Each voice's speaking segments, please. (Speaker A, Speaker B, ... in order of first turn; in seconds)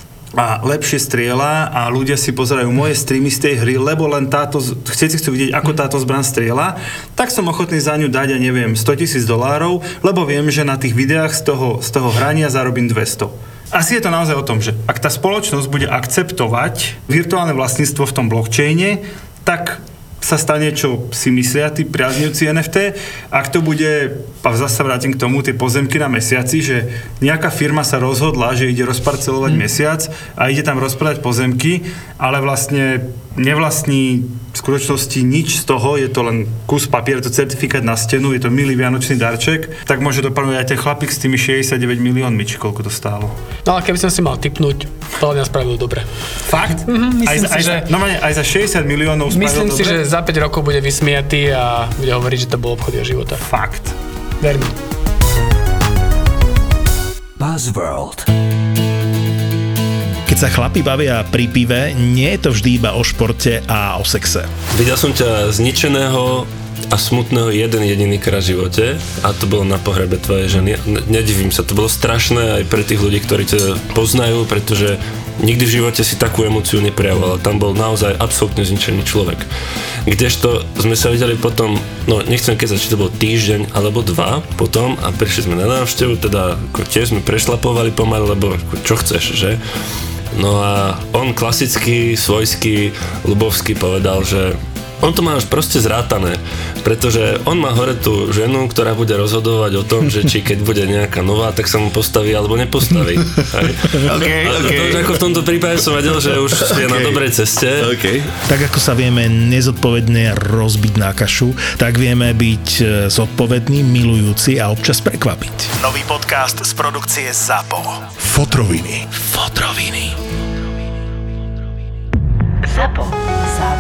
Speaker A: 0.3-43.4, 46.5-50.1, 53.4-54.0
Speaker B: 43.6-47.9, 49.3-53.5, 54.4-54.8
Speaker C: 57.4-58.3, 104.0-105.3, 106.8-107.2, 107.8-108.2
Speaker D: 60.3-64.5, 108.5-120.2
Speaker E: 64.7-79.5, 80.0-89.6, 90.3-108.3